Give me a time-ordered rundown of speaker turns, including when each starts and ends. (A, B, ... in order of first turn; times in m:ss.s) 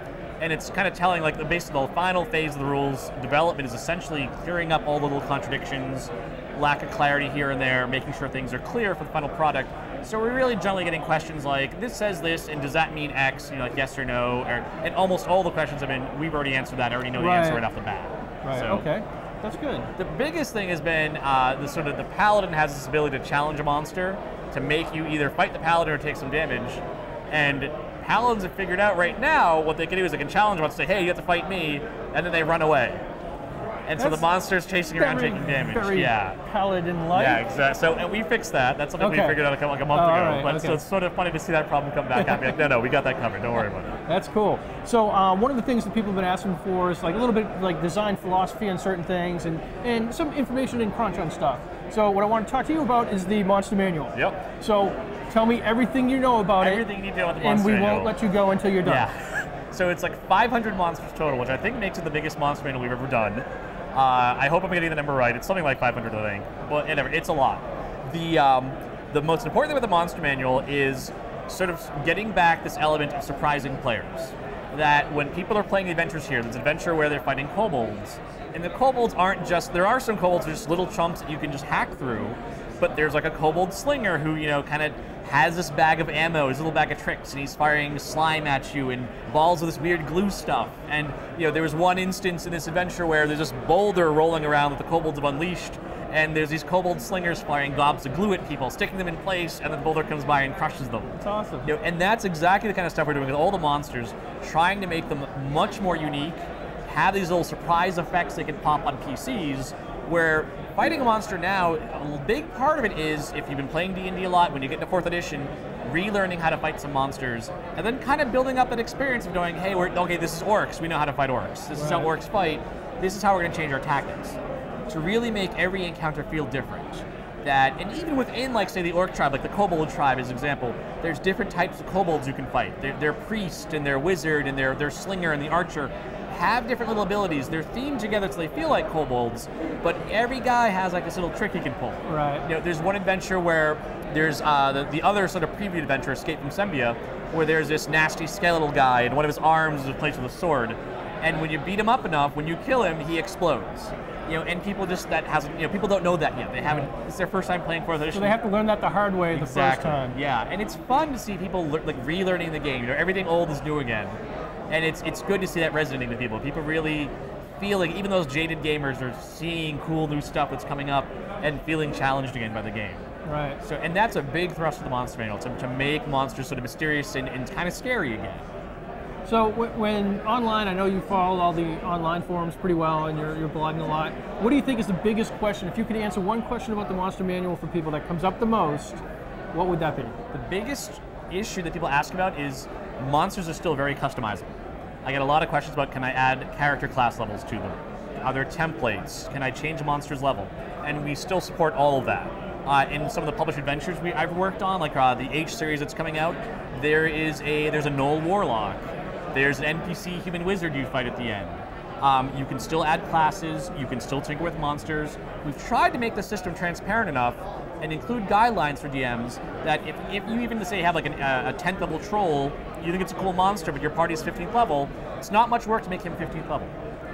0:00.4-0:18.9 A
0:17.1-0:17.6 B
0:18.4-0:19.9 B
0:20.0-0:33.0 A
0:33.9-0:36.4 A
0:34.0-0:34.3 B
0:34.9-0:37.4 B
0:37.1-0:43.9 A
0:39.0-0:39.4 B
0:39.9-0:40.8 B
0:42.2-0:42.5 B
0:44.1-0:59.1 B
0:54.1-0:54.4 A
0:56.6-0:58.2 A
0:58.8-2:38.4 A
1:41.2-1:41.7 B
2:01.7-2:02.1 B
2:22.0-2:22.5 B
2:38.1-2:40.2 B
2:39.3-2:44.2 A
2:44.7-2:53.0 A
2:53.2-2:53.6 B
2:53.6-2:58.4 A
2:59.2-3:09.0 B
3:09.5-3:10.2 B
3:10.3-3:14.5 A
3:15.0-3:46.7 A